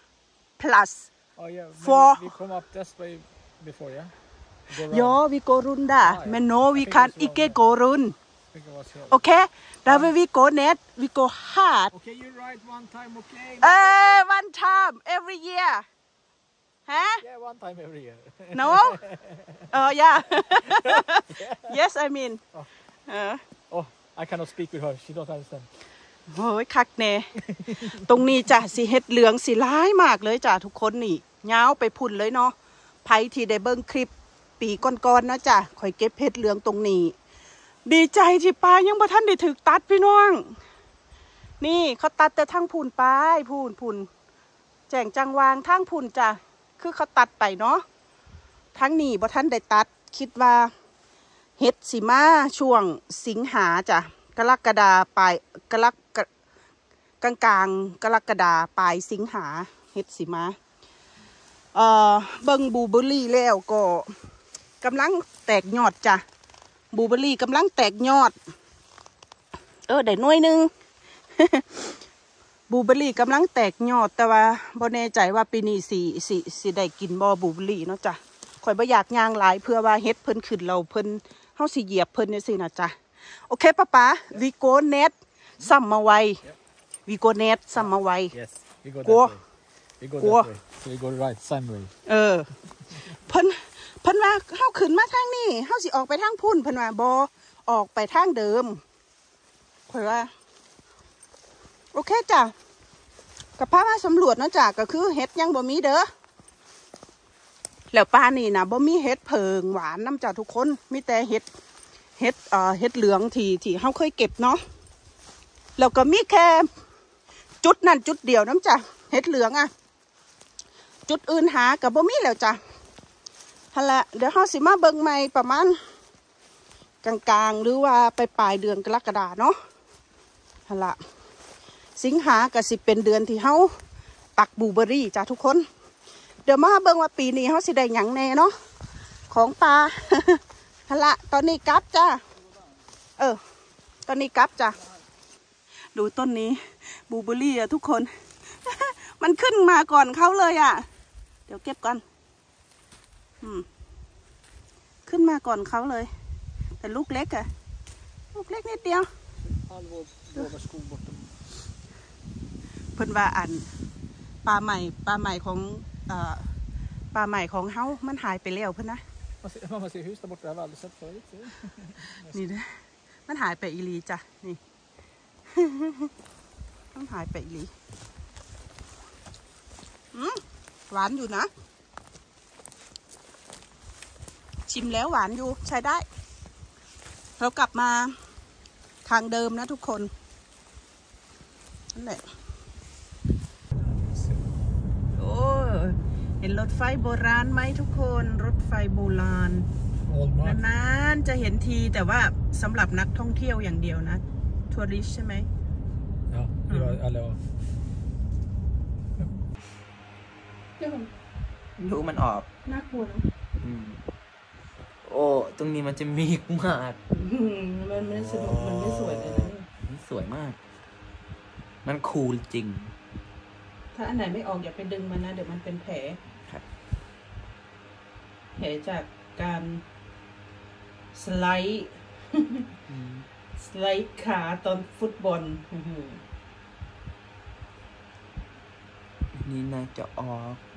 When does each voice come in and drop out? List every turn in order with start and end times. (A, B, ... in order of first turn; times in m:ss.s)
0:00.6-0:01.1 A
0:01.4-0:04.1 B
0:01.8-0:02.3 A
0:04.7-0:05.2 B
0:04.8-0:08.2 A
0:06.0-0:07.6 B
0:08.5-0:09.2 B
0:09.1-0:11.9 A
0:09.9-0:10.1 B
0:11.9-0:14.2 B
0:13.6-0:15.8 A
0:16.9-0:17.2 A
0:17.2-0:19.7 B
0:18.5-0:19.0 A
0:19.7-0:22.4 A
0:20.7-0:21.8 B
0:23.1-0:23.4 A
0:23.7-0:25.7 B
0:26.3-0:37.1 A
0:37.8-0:40.6 A
0:41.6-0:44.1 A
0:44.9-0:47.8 A
0:48.7-0:50.7 A
0:51.6-0:56.3 A
0:57.2-1:00.6 A
1:01.7-1:04.1 A
1:04.8-1:06.2 A
1:06.9-1:08.3 A
1:09.9-1:10.7 A
1:11.4-1:12.0 A
1:12.7-1:23.0 A
1:23.5-1:26.4 A
1:27.1-1:28.3 A
1:28.3-1:29.4 B
1:29.0-1:29.4 A
1:30.0-1:31.9 B
1:30.2-1:30.5 A
1:32.0-1:32.5 A
1:33.1-1:38.8 A
1:39.9-1:40.3 A
1:41.9-1:42.5 A
1:43.6-1:46.1 A
1:47.9-1:51.4 A
1:52.2-1:54.6 A
1:55.8-1:56.7 A
1:57.6-1:59.7 A
2:01.1-2:02.6 A
2:03.7-2:05.8 A
2:07.0-2:09.6 A
2:10.7-2:11.0 A
2:12.0-2:13.7 A
2:14.4-2:15.6 A
2:16.4-2:18.5 A
2:19.3-2:22.2 A
2:24.1-2:24.8 A
2:25.9-2:28.1 A
2:28.6-2:30.8 A
2:31.5-2:32.0 A
2:35.0-2:36.1 A
2:36.8-2:37.5 A
2:38.3-2:39.1 A
2:39.5-2:41.4 B
2:43.0-2:43.7 A
2:44.4-2:46.5 A
2:47.1-2:49.0 A
2:49.4-2:52.4 B
2:52.3-2:52.7 A
2:53.3-2:54.6 A
2:55.5-2:56.1 A
2:56.9-2:57.7 A
3:00.1-3:01.5 A
3:04.7-3:06.0 A
3:07.4-3:08.2 A
3:09.0-3:10.1 A
3:11.9-3:12.2 A
3:13.8-3:14.4 B
3:15.2-3:19.7 A
3:20.1-3:20.6 B
3:20.4-3:25.5 A
3:26.3-3:27.4 B
3:26.7-3:27.0 A
3:30.8-3:31.1 A
3:31.8-3:32.5 C
3:32.7-3:33.3 A
3:33.6-3:34.0 C
3:35.0-3:37.0 C
3:37.1-3:39.6 A
3:39.8-3:40.6 C
3:41.8-3:42.9 C
3:43.9-3:46.2 A
3:48.6-3:49.8 A
3:51.1-3:52.6 A
3:52.9-3:53.2 C
3:53.6-3:56.2 A
3:59.3-4:00.6 C